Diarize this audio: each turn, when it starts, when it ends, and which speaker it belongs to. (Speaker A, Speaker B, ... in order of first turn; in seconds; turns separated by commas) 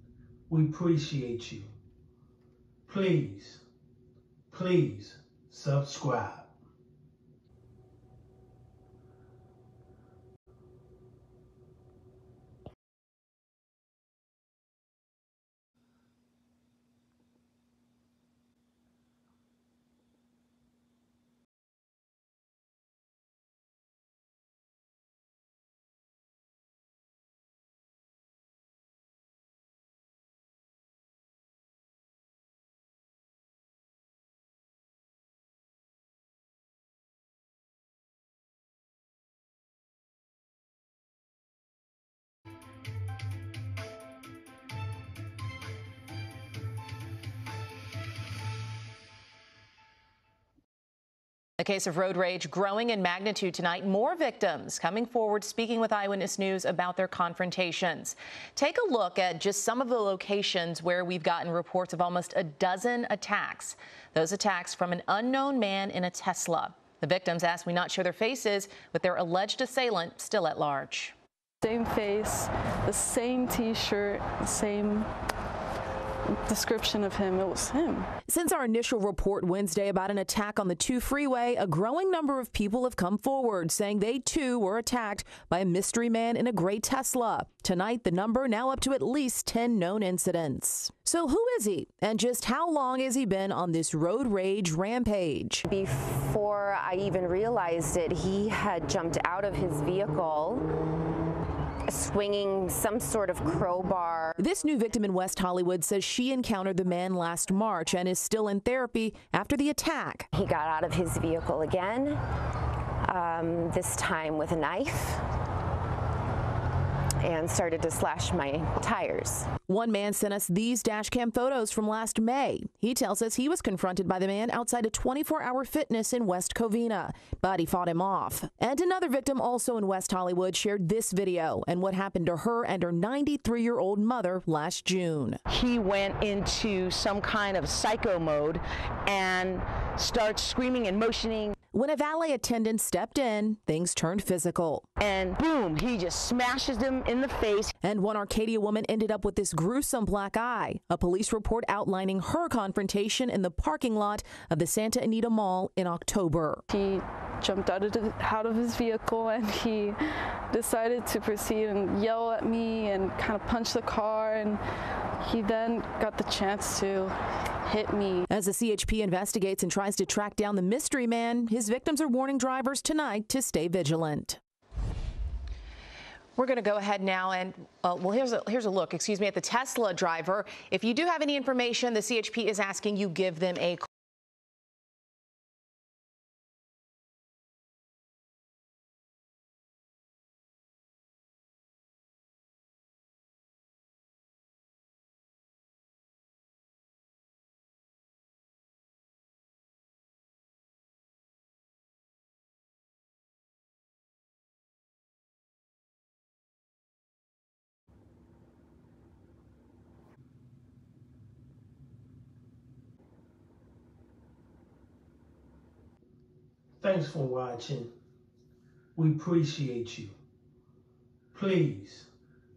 Speaker A: 0.5-1.7, Speaker A: 2.9-3.6, Speaker A: 4.5-6.5, Speaker B: 51.6-71.1, Speaker C: 71.6-75.1, Speaker C: 76.5-78.1, Speaker B: 78.3-95.6, Speaker D: 95.7-100.7, Speaker D: 101.9-104.4, Speaker B: 104.4-110.3, Speaker D: 110.3-112.2, Speaker D: 113.0-115.2, Speaker D: 117.2-119.5, Speaker B: 119.7-135.4, Speaker E: 135.5-141.5, Speaker B: 141.7-144.8, Speaker E: 145.0-147.7, Speaker B: 147.8-156.6, Speaker C: 156.7-164.6, Speaker C: 165.2-167.1, Speaker C: 167.6-168.2, Speaker B: 168.3-174.4, Speaker B: 176.4-183.9, Speaker A: 216.8-217.9, Speaker A: 218.9-220.1, Speaker A: 221.3-222.1